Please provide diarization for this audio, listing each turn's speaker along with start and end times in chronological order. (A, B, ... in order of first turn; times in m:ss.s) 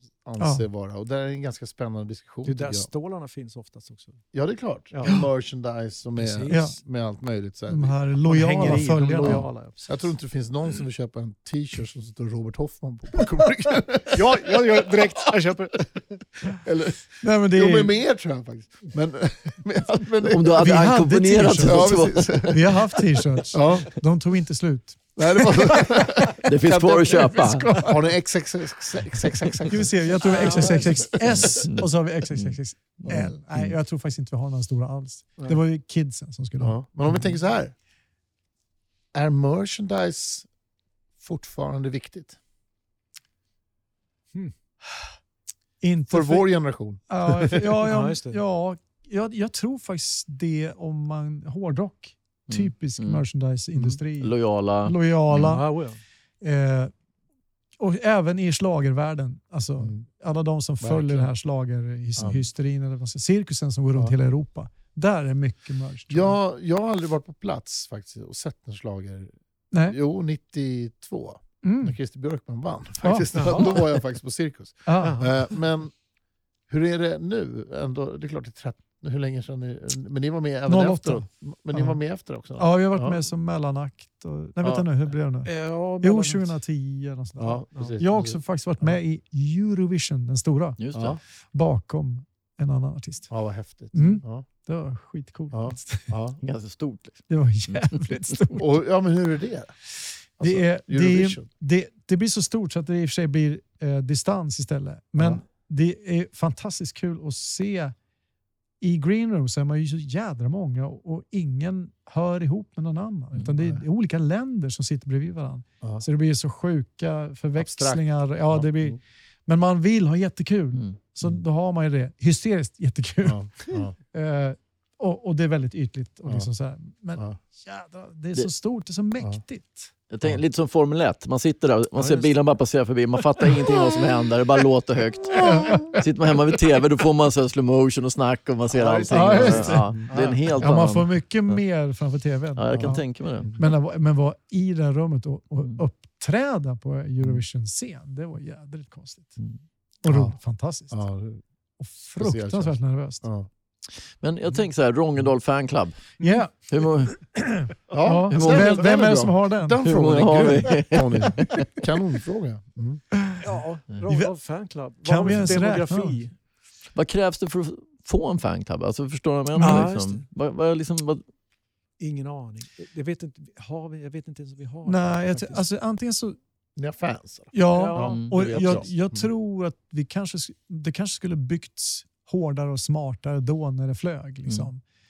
0:00.2-0:02.9 A
0:00.4-0:00.6 B
0:02.4-0:04.2 C
0:04.3-0:08.0 A
0:04.9-0:05.2 C
0:06.2-0:06.8 C
0:06.5-0:06.8 B
0:07.7-0:09.4 B
0:08.3-0:10.1 C
0:08.6-0:15.3 A
0:14.1-0:16.2 C
0:16.5-0:20.8 A
0:17.2-0:18.0 B
0:20.3-0:22.4 D
0:20.6-0:25.5 B
0:21.6-0:23.9 A
0:25.2-0:31.6 A
0:26.4-0:27.9 D
0:29.7-0:36.8 B
0:30.2-0:31.2 C
0:31.3-0:33.7 D
0:33.0-0:33.3 A
0:36.6-0:37.8 A
0:39.1-0:40.5 A
0:41.2-0:42.4 A
0:45.8-0:46.5 B
0:46.1-0:47.6 A
0:47.1-0:55.7 B
0:47.8-0:48.4 C
0:52.5-0:53.2 D
0:54.0-0:55.6 D
0:55.3-0:56.0 C
0:56.4-0:56.9 B
0:57.8-1:06.4 B
0:59.8-1:00.0 A
1:00.8-1:01.3 A
1:02.2-1:02.5 A
1:06.1-1:16.0 A
1:09.7-1:10.0 B
1:11.6-1:12.0 B
1:13.0-1:13.3 B
1:13.3-1:13.8 C
1:14.9-1:15.2 B
1:15.0-1:15.5 C
1:16.7-1:23.3 A
1:20.7-1:22.0 B
1:22.6-1:30.8 B
1:24.6-1:24.9 A
1:25.4-1:26.6 C
1:27.4-1:29.0 A
1:30.8-1:31.2 D
1:30.9-1:31.2 A
1:31.5-1:33.4 B
1:33.3-1:34.4 A
1:33.9-1:36.2 B
1:35.5-1:36.4 A
1:36.4-1:38.2 D
1:37.3-1:38.9 B
1:38.6-1:39.8 A
1:40.0-1:48.0 B
1:40.4-1:41.5 A
1:45.2-1:45.4 A
1:48.8-2:09.9 B
1:53.6-1:53.8 A
1:57.6-1:59.0 A
2:03.2-2:04.0 A
2:10.1-2:21.6 D
2:12.0-2:12.3 C
2:15.4-2:15.9 B
2:15.4-2:16.0 A
2:18.7-2:20.8 A
2:19.1-2:20.0 B
2:20.1-2:20.4 C
2:20.6-2:29.4 B
2:22.6-2:23.6 D
2:22.8-2:23.6 A
2:30.0-2:31.0 B
2:30.1-2:30.4 A
2:30.9-2:31.4 A
2:31.8-2:33.3 B
2:32.2-2:33.5 A
2:33.9-2:36.2 D
2:36.2-2:39.8 B
2:36.7-2:37.3 D
2:37.9-2:43.0 A
2:38.3-2:39.0 D
2:39.8-2:41.7 D
2:43.4-2:46.4 C
2:44.1-2:44.3 B
2:45.0-2:46.2 B
2:46.9-2:51.2 D
2:49.5-2:49.9 B
2:49.6-2:50.2 C
2:52.0-2:55.6 C
2:54.9-2:56.4 B
2:56.8-2:59.3 A
2:57.5-3:04.8 B
2:57.7-2:58.2 C
2:58.0-2:58.8 D